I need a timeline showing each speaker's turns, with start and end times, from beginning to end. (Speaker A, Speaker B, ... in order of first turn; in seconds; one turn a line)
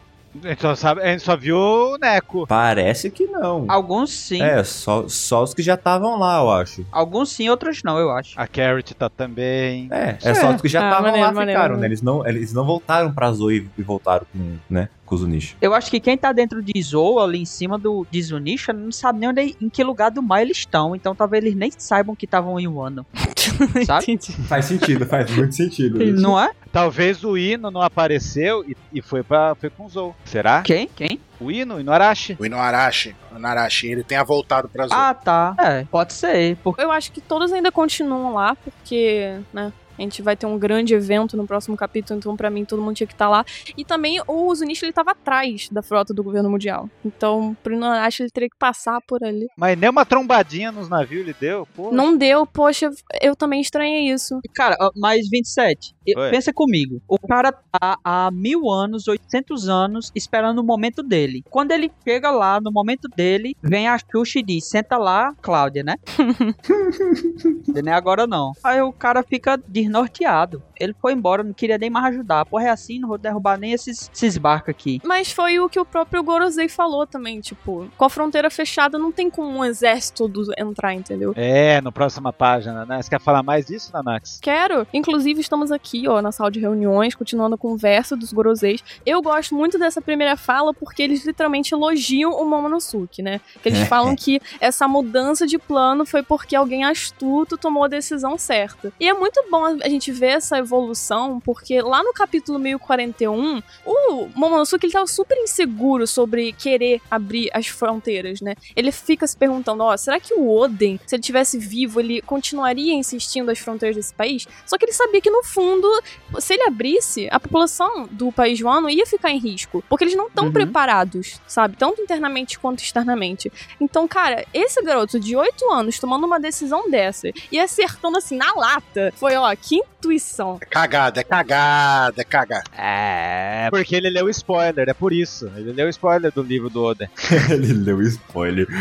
Speaker A: 0.3-2.5
Speaker B: 2.5-3.8
Speaker C: 3.7-4.5
Speaker B: 4.4-6.9
Speaker C: 6.9-8.4
Speaker A: 8.4-10.6
Speaker B: 9.9-15.6
Speaker D: 10.8-11.9
Speaker C: 15.6-23.1
Speaker D: 23.2-24.5
Speaker C: 23.8-24.1
Speaker B: 24.5-26.4
Speaker C: 26.0-26.5
Speaker A: 26.7-30.7
Speaker C: 30.6-31.2
Speaker A: 31.4-32.4
Speaker E: 32.4-35.1
Speaker C: 34.9-36.8
Speaker D: 36.8-49.5
Speaker A: 49.6-52.1
Speaker D: 51.9-54.4
Speaker C: 54.5-66.0
Speaker D: 66.2-66.5
Speaker B: 66.7-67.6
Speaker C: 67.7-75.0
Speaker D: 75.0-81.3
Speaker A: 81.3-84.4
Speaker D: 84.4-130.6
Speaker B: 93.7-94.2
Speaker C: 120.4-120.8
Speaker E: 130.6-132.6
Speaker A: 132.8-137.1
Speaker B: 137.3-138.7